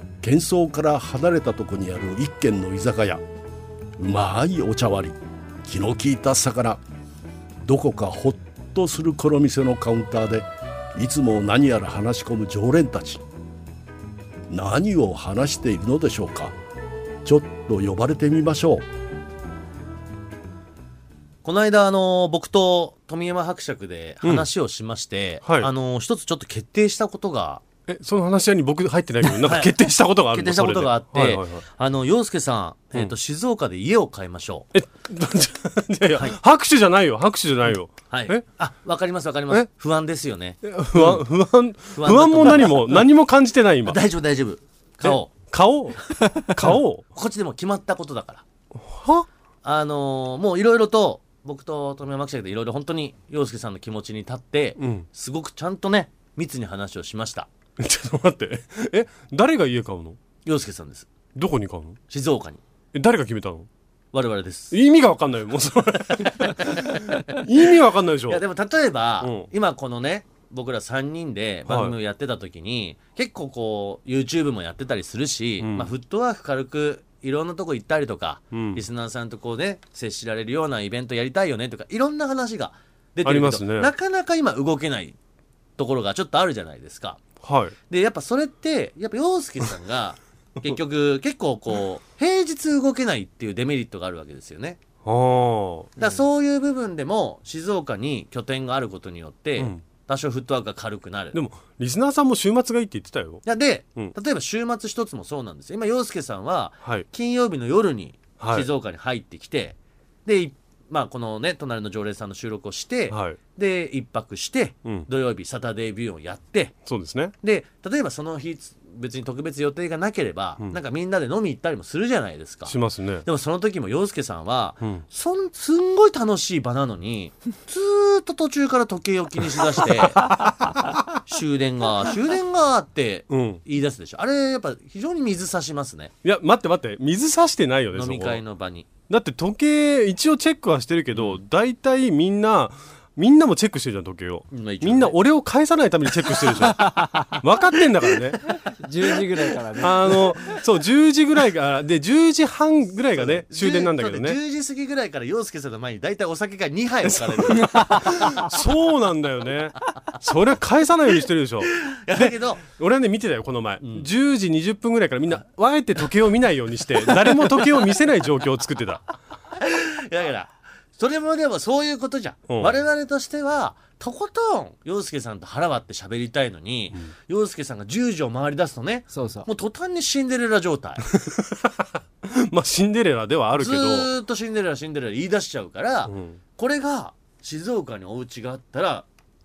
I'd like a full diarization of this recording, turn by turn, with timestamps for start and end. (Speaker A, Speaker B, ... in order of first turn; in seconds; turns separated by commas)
Speaker A: 0.2-3.2, Speaker A: 4.0-6.8, Speaker A: 7.6-13.2, Speaker A: 14.5-16.5, Speaker A: 17.2-18.8, Speaker B: 21.4-27.6, Speaker C: 24.2-24.5, Speaker C: 25.4-25.7, Speaker C: 27.9-31.6, Speaker B: 29.3-34.7, Speaker C: 34.7-38.4, Speaker B: 38.1-41.2, Speaker C: 40.6-44.0, Speaker B: 41.9-43.0, Speaker B: 43.9-45.3, Speaker C: 45.0-47.0, Speaker B: 47.1-48.4, Speaker C: 48.7-49.3, Speaker B: 49.6-57.5, Speaker C: 54.8-55.0, Speaker C: 57.8-60.2, Speaker B: 60.4-61.1, Speaker C: 61.3-62.0, Speaker B: 62.1-62.6, Speaker C: 62.9-63.7, Speaker B: 64.1-64.8, Speaker C: 64.7-68.4, Speaker B: 66.5-67.4, Speaker B: 68.3-85.2, Speaker C: 69.2-69.5, Speaker C: 71.7-71.9, Speaker C: 75.6-75.9, Speaker C: 78.5-78.8, Speaker C: 83.2-83.9, Speaker B: 85.8-87.2, Speaker C: 87.4-87.7, Speaker B: 87.9-94.8, Speaker C: 95.0-96.2, Speaker B: 96.0-101.4, Speaker C: 99.6-99.8, Speaker C: 101.3-103.4, Speaker B: 103.4-116.8, Speaker C: 108.4-108.7, Speaker C: 113.1-113.4, Speaker C: 116.8-117.3, Speaker B: 117.4-130.3, Speaker C: 122.7-123.2, Speaker C: 129.8-130.9, Speaker B: 131.3-136.1, Speaker C: 133.3-133.6, Speaker C: 136.2-138.4, Speaker B: 137.9-138.9, Speaker C: 139.1-148.6, Speaker B: 141.1-141.4, Speaker B: 144.5-145.2, Speaker D: 146.7-147.4, Speaker D: 148.7-150.4, Speaker C: 149.8-154.4, Speaker B: 153.1-158.6, Speaker C: 157.0-169.0, Speaker B: 161.7-162.6, Speaker B: 163.8-164.1, Speaker B: 167.0-167.7, Speaker B: 169.6-181.1, Speaker C: 172.5-172.8, Speaker D: 179.1-179.5, Speaker C: 181.1-184.1, Speaker B: 183.5-189.1, Speaker C: 186.1-186.4